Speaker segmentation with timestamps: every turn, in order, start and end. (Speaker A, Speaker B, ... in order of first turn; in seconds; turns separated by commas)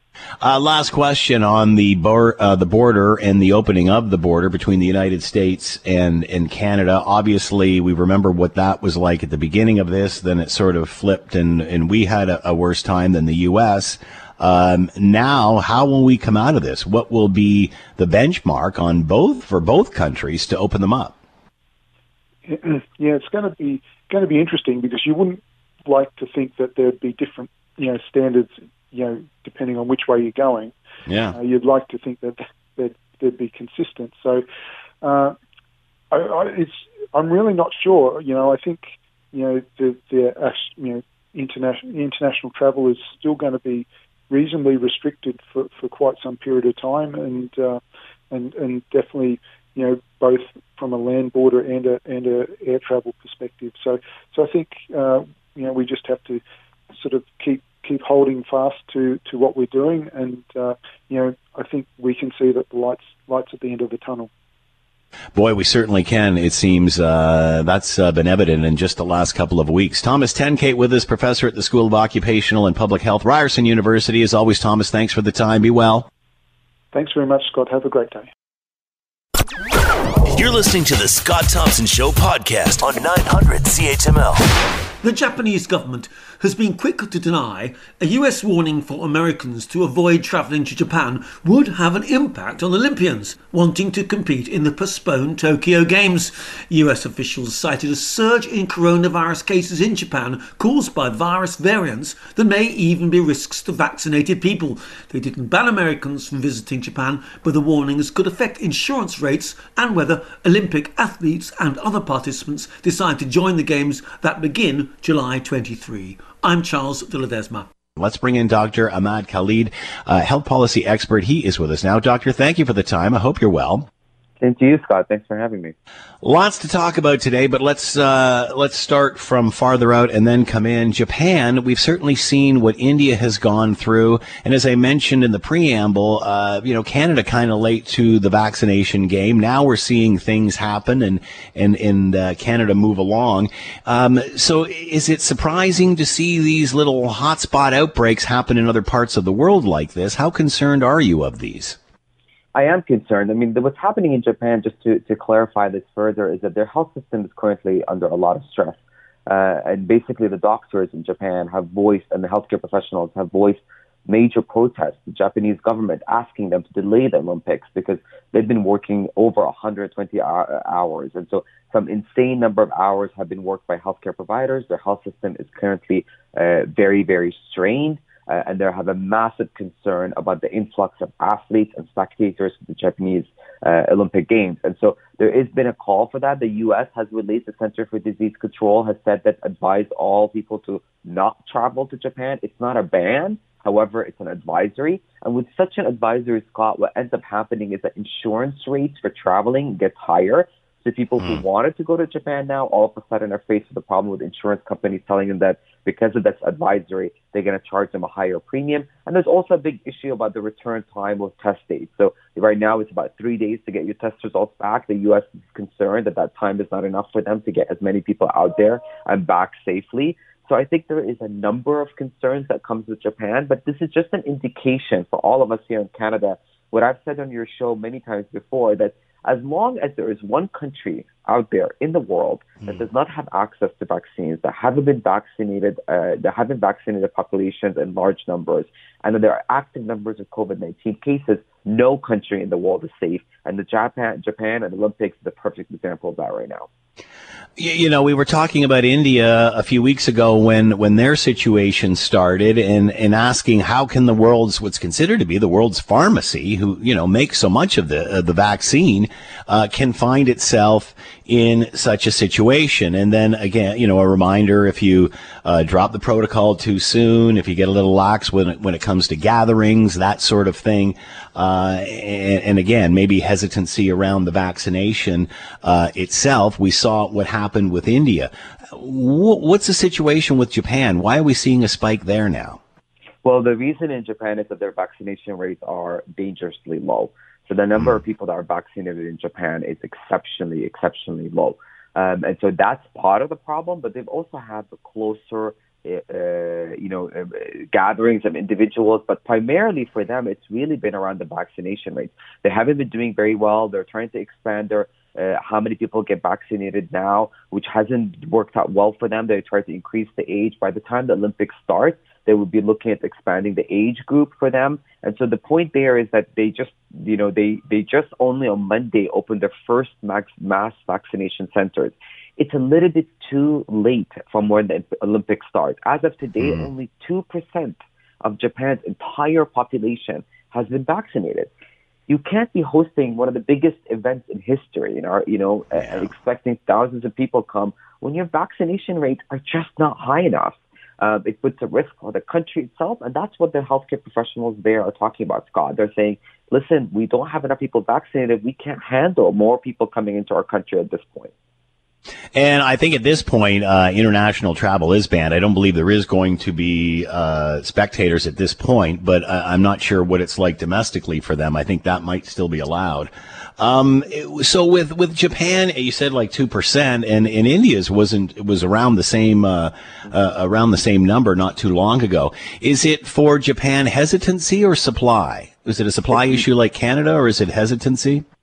Speaker A: 0.4-21.1, Speaker B: 22.4-30.7, Speaker A: 31.1-31.4, Speaker B: 31.3-34.4, Speaker B: 35.0-35.4, Speaker B: 36.1-56.4, Speaker B: 56.9-64.3, Speaker A: 65.3-76.1, Speaker B: 76.9-78.3, Speaker C: 80.3-84.5, Speaker D: 85.0-117.7, Speaker A: 118.0-123.9, Speaker E: 124.4-125.7, Speaker A: 126.2-151.8, Speaker E: 152.5-246.7, Speaker A: 247.6-282.6, Speaker E: 283.2-331.5, Speaker E: 332.1-351.3, Speaker A: 352.3-378.2